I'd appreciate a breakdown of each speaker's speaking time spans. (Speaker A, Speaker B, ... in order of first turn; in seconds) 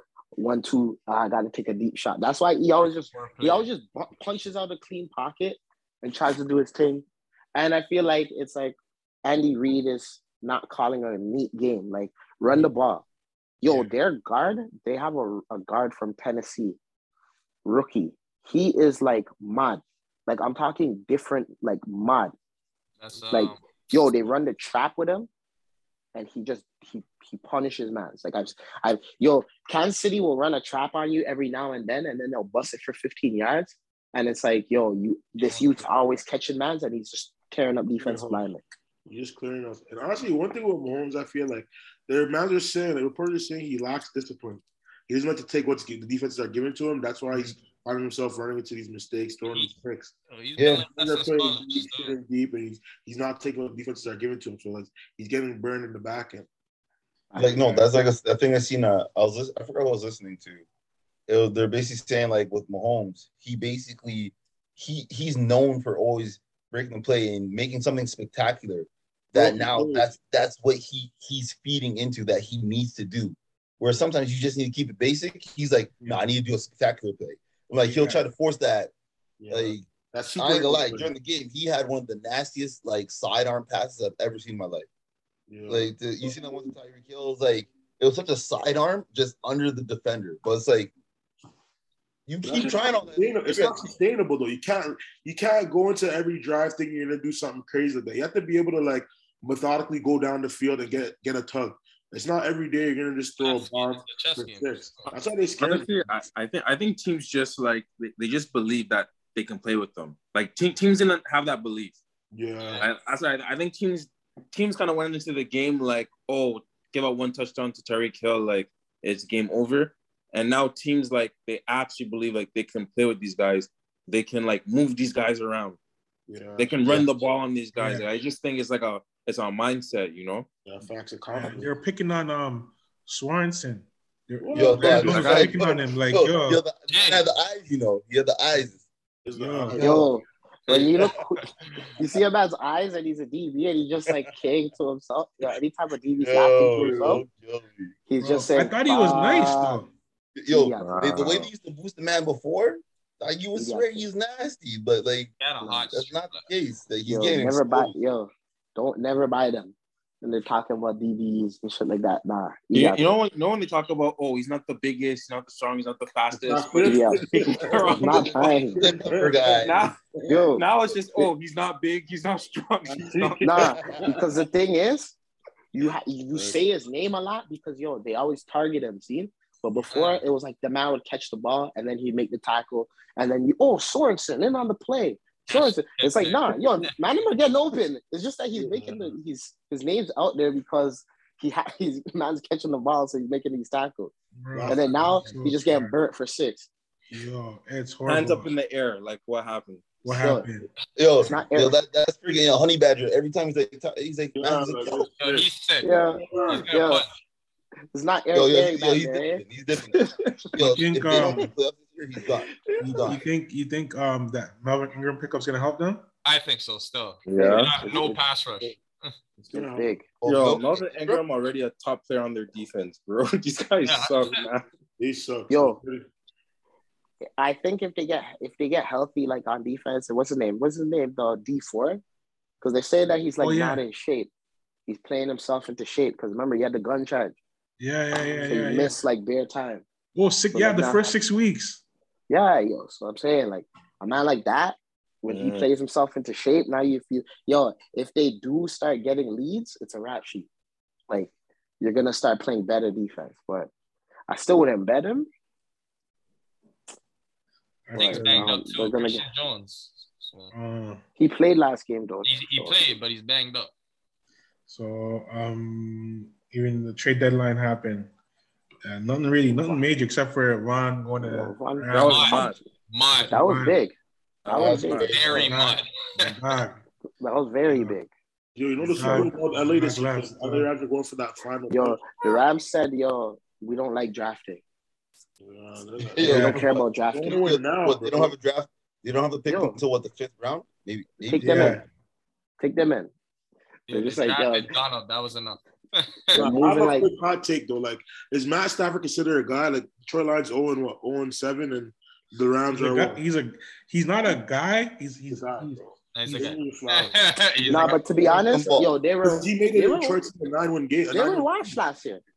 Speaker A: 0.4-13.1, 13.6-16.8, 17.6-22.3, 23.3-25.3, 26.1-38.6, 57.3-57.9, 139.8-147.2, 148.1-149.8, 150.5-151.0, 153.6-154.1, 157.1-163.1, 166.8-169.0, 170.3-170.7, 173.4-175.2, 175.7-194.1, 194.7-196.7, 200.1-200.5, 201.3-201.8, 205.8-207.0, 207.9-209.4, 211.1-211.4, 212.7-213.2, 217.4-218.2, 219.5-220.0, 225.5-225.8, 227.4-232.0, 232.6-234.3, 234.9-237.4, 238.4-239.8, 240.5-241.2, 242.3-250.5, 251.8-253.7, 254.3-255.3, 257.9-259.3, 261.2-262.9, 271.2-272.5, 273.3-273.9, 274.5-275.1, 277.2-278.1, 281.7-284.6, 286.2-287.4, 289.5-289.8, 291.2-291.8, 292.6-293.1, 293.9-294.7, 296.3-297.1, 307.7-310.2, 311.1-312.2
Speaker B: 3.1-3.7, 23.0-23.6, 50.3-52.1, 103.4-105.1, 136.9-137.3, 140.7-141.1, 155.4-156.5, 179.9-180.2, 185.5-187.3, 205.2-205.9, 206.5-207.1, 216.2-219.2, 223.8-224.5, 257.9-260.5, 262.2-263.7, 272.0-273.4, 275.1-276.3, 293.9-296.4, 306.1-308.0
Speaker C: 13.7-13.9, 77.8-78.3, 127.7-128.1, 131.3-136.6, 139.3-139.8, 148.2-149.9, 194.4-195.9, 197.1-198.5, 200.0-200.7, 210.6-211.5, 212.8-216.1, 233.4-233.8, 237.8-239.0, 240.2-241.8, 257.9-258.6, 260.5-261.0, 264.7-268.1, 268.9-272.5, 273.1-273.8, 275.2-276.8, 277.7-278.0, 278.8-280.7, 286.2-286.6, 291.4-291.8, 302.7-306.6
Speaker D: 35.4-35.8, 38.0-38.4, 39.1-50.1, 50.9-56.5, 69.3-70.1, 79.4-81.1, 85.5-85.9, 92.4-105.9, 112.3-112.8, 126.3-127.0, 130.7-131.7, 134.4-135.5, 139.2-140.1, 146.7-147.2, 166.3-170.4, 172.9-174.2, 176.3-176.6, 188.6-189.2, 194.5-195.3, 204.3-206.7, 219.4-219.9, 225.0-226.1, 278.6-282.1, 285.4-288.3, 296.3-303.2, 305.3-307.2, 307.7-311.8
Speaker E: 50.6-50.9, 57.4-60.6, 61.3-78.9, 79.5-84.9, 85.7-90.9, 92.3-93.8, 134.6-138.8, 139.8-140.1, 146.2-147.9, 150.4-155.3, 155.9-157.9, 168.8-169.9, 201.0-205.1, 208.3-210.0, 210.5-213.2, 220.2-221.2, 274.5-275.5, 286.1-291.8, 308.5-308.9
Speaker F: 105.6-112.0, 112.8-125.8, 126.6-130.5, 135.0-135.5, 150.8-151.5, 162.7-168.7, 169.4-173.6, 198.1-200.0, 209.9-210.5, 217.3-217.8, 220.2-224.7, 245.3-245.7, 271.9-272.6, 274.4-275.1